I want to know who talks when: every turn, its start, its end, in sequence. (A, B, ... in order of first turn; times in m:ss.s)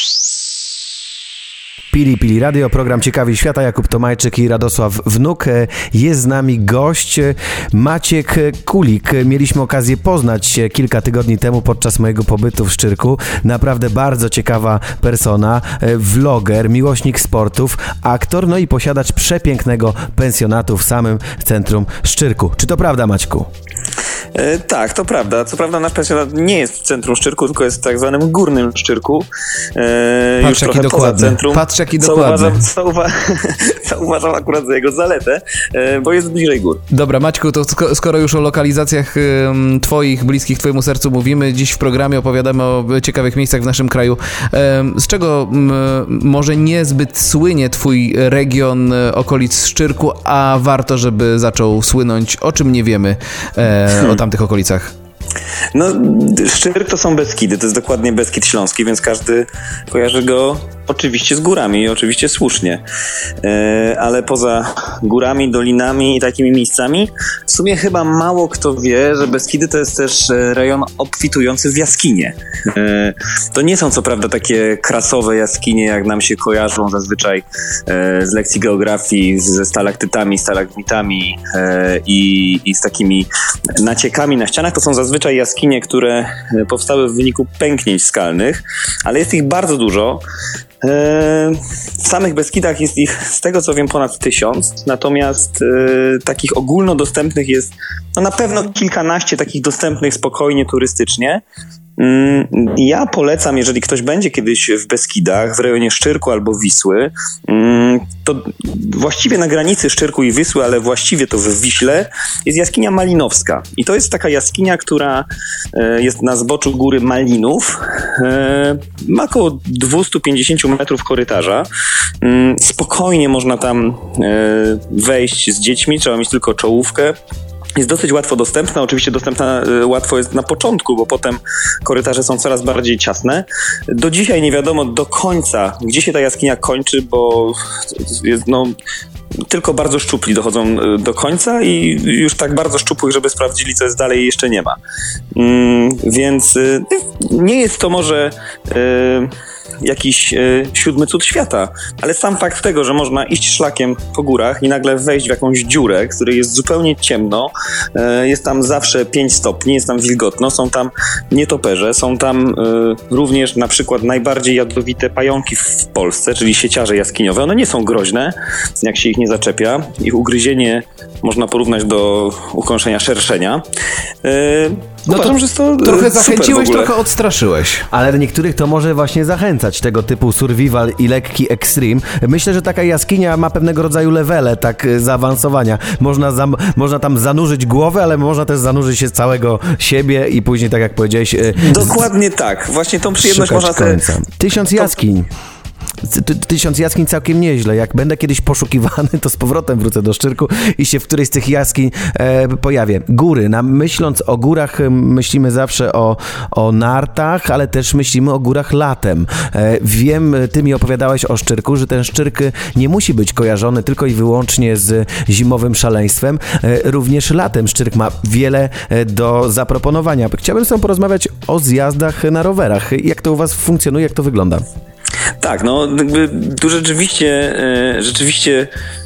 0:01.9-0:23.5 A
0:24.4-0:36.8 B
0:30.4-0:32.6 C
0:36.9-0:54.9 C
0:55.7-1:02.8 B
1:03.4-1:30.2 B
1:30.8-1:41.4 B
1:42.0-2:01.7 B
2:02.2-2:07.2 B
2:07.8-2:18.8 B
2:19.5-2:24.8 B
2:25.4-2:29.3 B
2:29.8-2:53.6 B
2:54.2-2:56.9 B
2:55.1-2:57.8 C
2:57.9-3:11.9 A
3:11.6-3:14.0 B
3:13.2-3:15.3 A
3:16.0-3:44.6 A
3:45.4-3:48.7 B